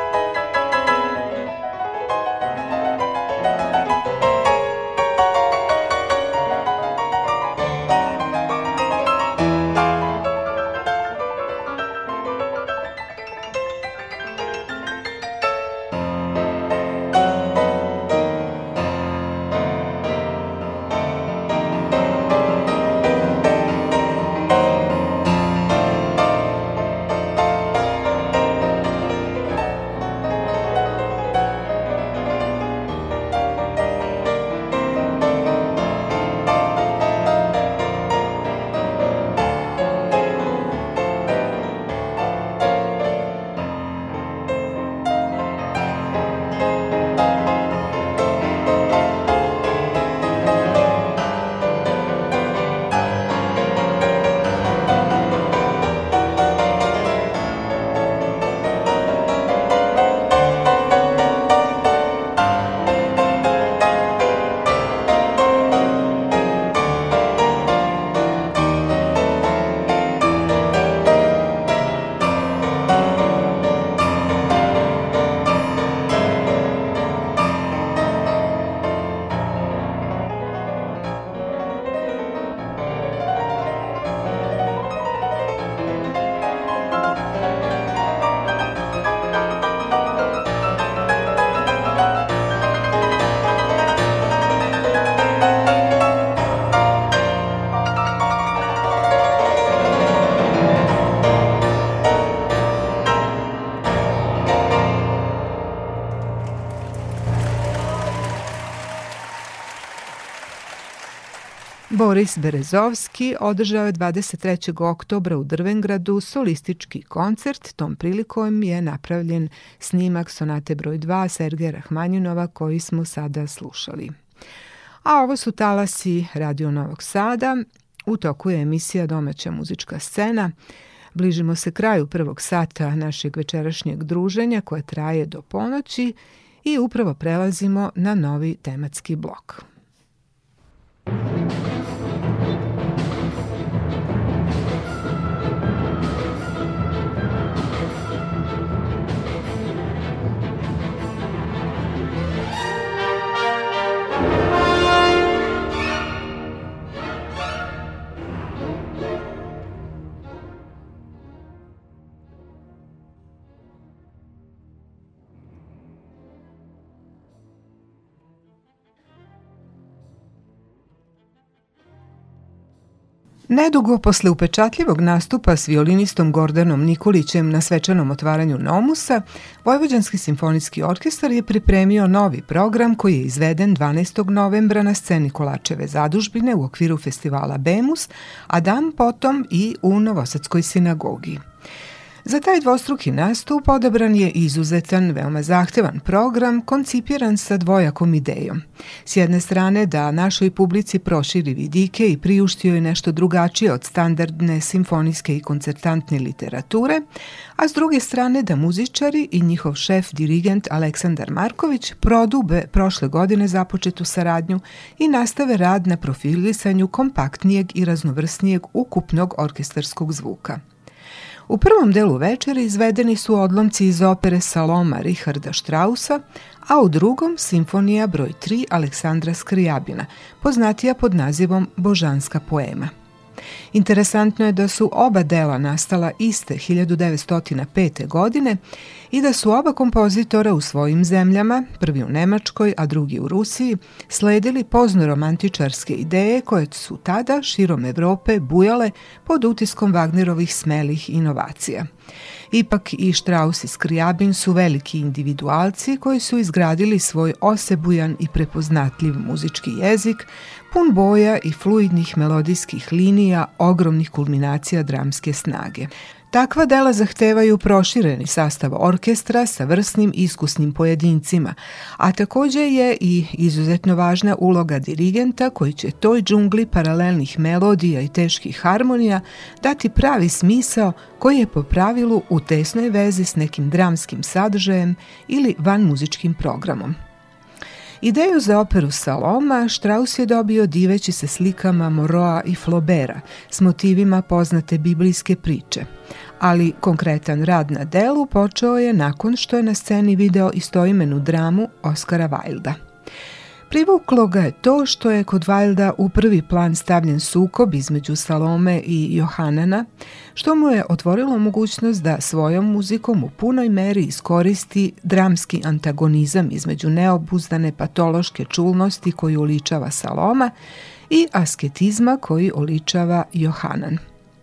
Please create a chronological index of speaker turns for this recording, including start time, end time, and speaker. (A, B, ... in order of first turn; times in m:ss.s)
1:51.9-2:04.2 A
2:05.0-2:10.5 A
2:11.1-2:19.6 A
2:53.5-3:11.4 A
3:12.2-3:27.0 A
3:27.6-3:40.6 A
3:41.5-3:52.9 A
3:53.7-3:58.6 A
3:59.1-4:11.9 A
4:12.5-4:47.0 A
4:48.0-4:55.9 A
4:56.4-5:02.8 A
5:03.7-5:20.5 A
5:21.1-5:24.0 A